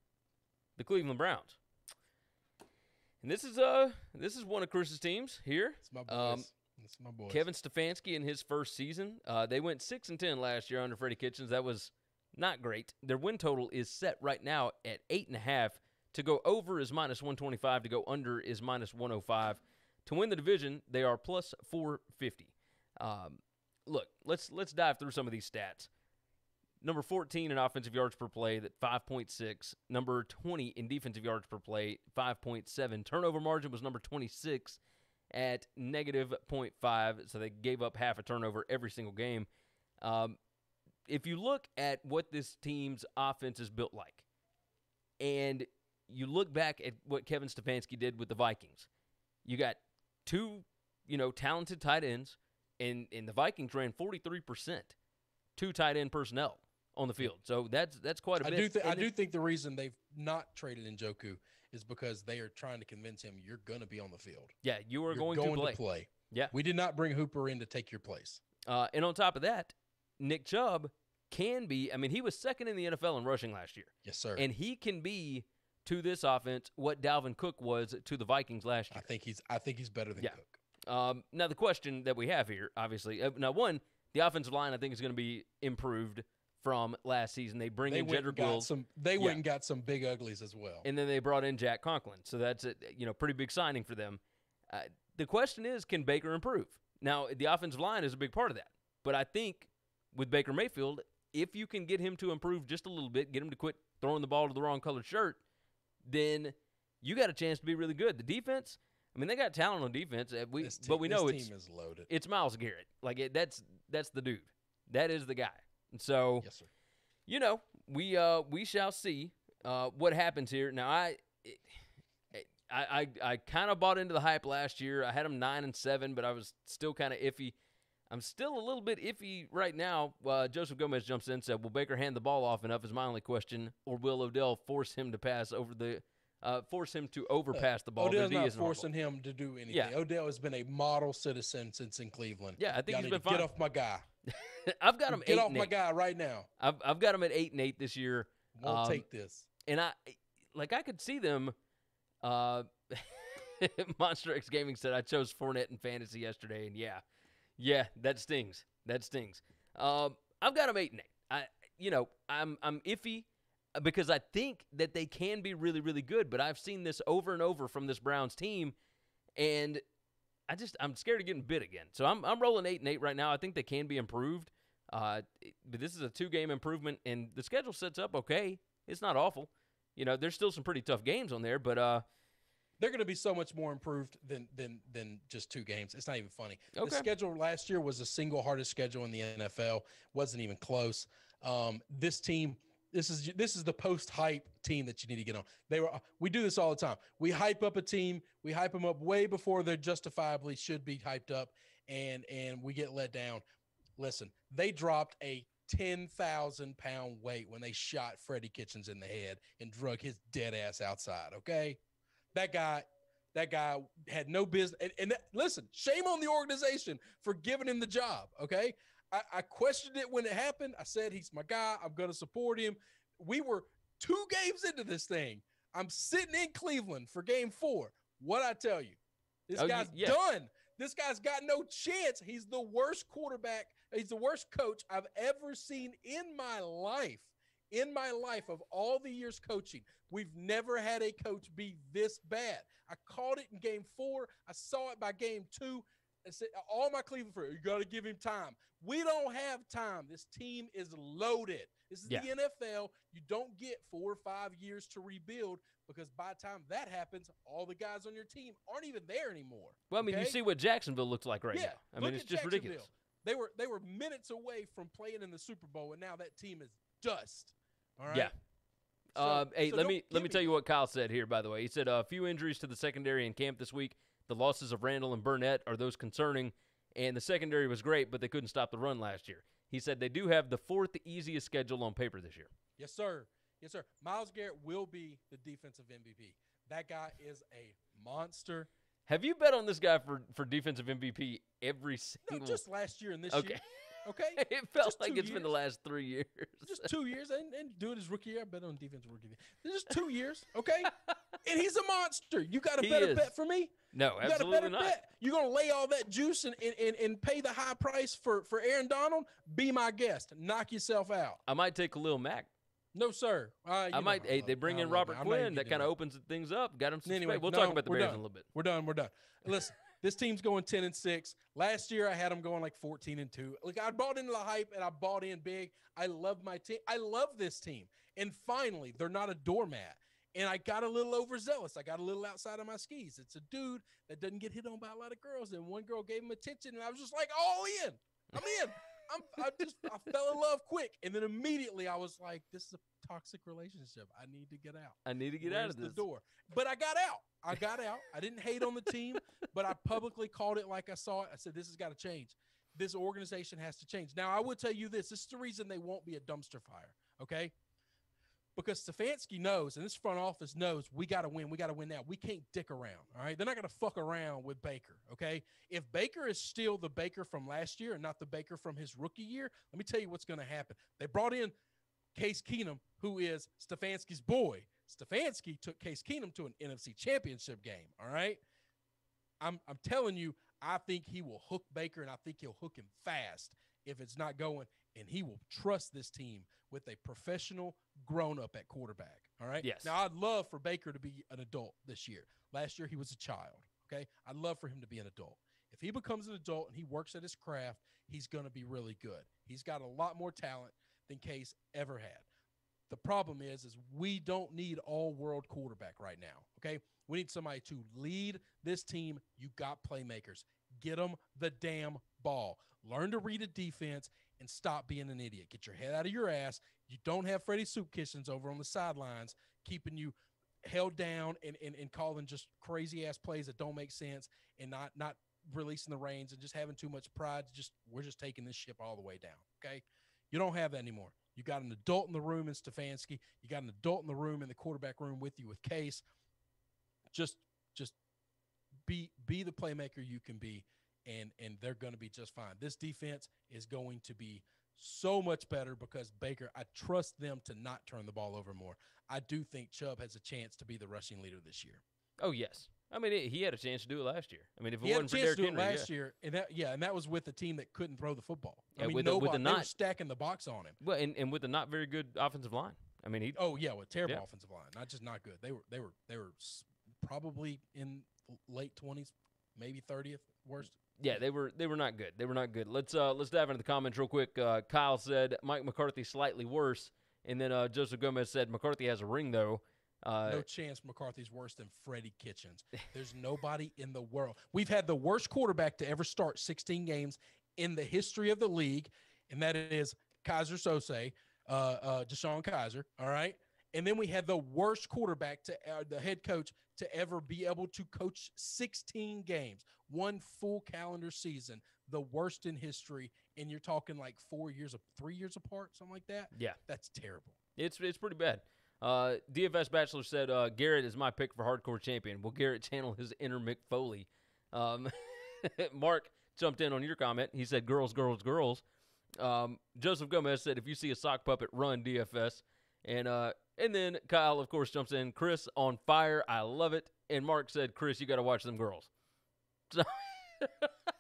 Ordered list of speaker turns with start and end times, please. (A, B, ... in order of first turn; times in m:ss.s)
0:00.8-0:01.6 A
0:03.2-0:06.5 A
0:05.8-0:07.4 B
0:07.3-0:25.9 A
0:26.8-0:34.8 A
0:35.3-0:39.5 A
0:40.0-0:40.4 A
0:41.1-0:44.2 A
0:45.2-0:48.9 A
0:49.4-0:54.9 A
0:55.6-0:59.1 A
0:58.4-1:04.5 B
1:04.6-1:06.5 A
1:05.1-1:08.4 B
1:08.7-1:19.1 A
1:14.0-1:14.4 B
1:18.9-1:20.6 B
1:20.2-1:29.4 A
1:27.8-1:30.8 B
1:30.8-1:45.4 A
1:46.0-1:51.5 A
1:50.6-1:52.1 B
1:52.1-1:56.5 A
1:56.4-1:56.7 B
1:57.3-2:01.7 A
2:02.3-2:07.5 A
2:08.1-2:18.8 A
2:17.5-2:24.0 B
2:19.7-2:19.9 A
2:22.6-2:23.5 A
2:24.4-2:25.7 A
2:25.1-2:26.5 B
2:26.6-2:29.0 A
2:28.5-2:29.5 B
2:29.7-2:31.5 A
2:32.2-2:37.0 A
2:37.6-2:48.7 A
2:49.4-2:49.8 A
2:50.5-3:02.0 A
3:02.8-3:23.4 B
3:06.7-3:07.1 A
3:24.0-3:31.8 B
3:32.3-4:20.4 B
3:49.5-3:50.2 A
4:19.9-4:22.8 A
4:21.5-4:28.3 B
4:29.1-4:42.5 A
4:29.2-4:30.6 B
4:42.8-4:48.7 B
4:49.1-4:52.6 A
4:52.3-4:55.5 B
4:53.3-4:53.6 A
4:54.4-4:56.9 A
4:56.6-5:11.4 B
5:02.8-5:03.3 A
5:03.9-5:05.0 A
5:11.5-5:12.5 A
5:12.9-5:15.9 B
5:13.9-5:18.4 A
5:17.0-5:57.5 B
5:45.0-5:46.0 A
5:58.5-6:11.5 B
6:12.1-6:18.4 B
6:19.4-6:42.3 B
6:29.6-6:30.0 A
6:42.9-7:16.0 B
7:17.1-7:17.9 B
7:18.8-7:31.8 B
7:32.2-7:35.9 A
7:34.8-7:40.8 B
7:38.8-7:39.7 A
7:40.8-7:43.4 A
7:43.3-7:51.2 B
7:51.0-8:00.4 A
8:00.2-8:27.4 B
8:26.3-8:26.6 A
8:27.6-8:38.6 A
8:39.2-8:48.9 A
8:49.7-8:50.7 A